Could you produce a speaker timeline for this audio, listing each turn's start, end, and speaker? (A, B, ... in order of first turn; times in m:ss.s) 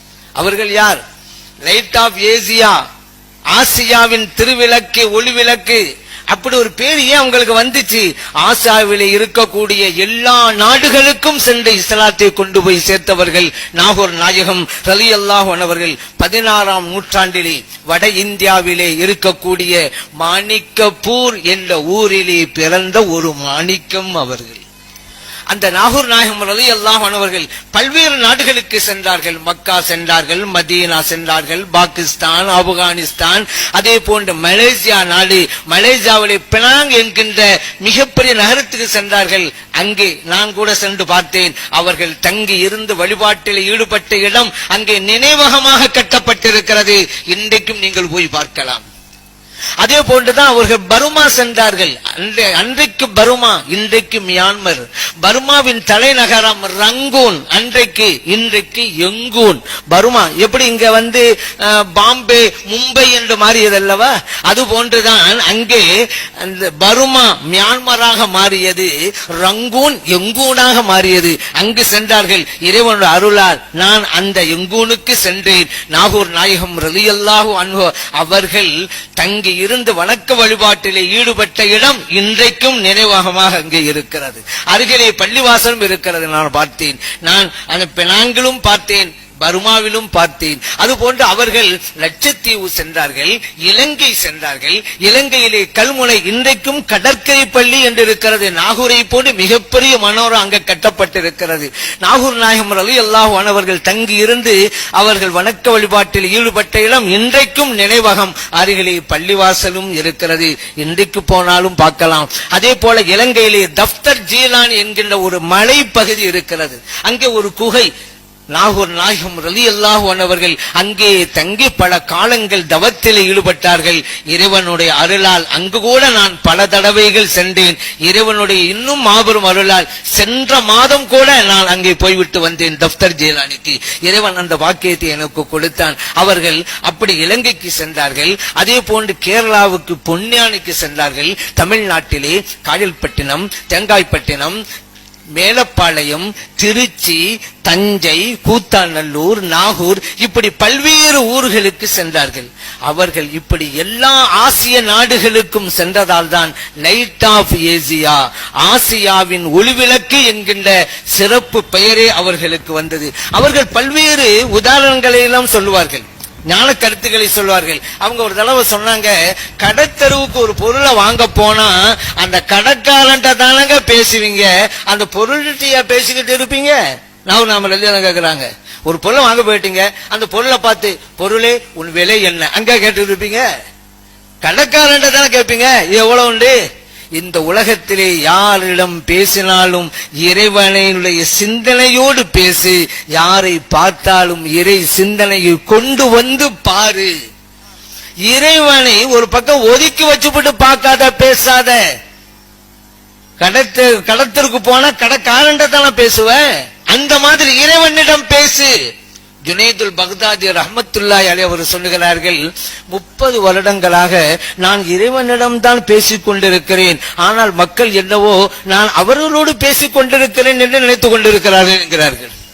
0:00.4-0:01.0 A
0:01.6-0:02.8 A
0:03.5-0:05.8 A
0:06.3-0:24.6 A
0:25.5-0:48.8 A
0:49.8-1:57.9 A
1:58.5-2:24.6 A
2:25.4-2:56.8 A
2:57.3-3:03.4 A
3:04.4-3:06.6 A
3:07.2-3:17.1 A
3:18.3-3:21.8 A
3:23.4-3:28.7 A
3:29.5-3:32.4 A
3:32.9-3:42.3 A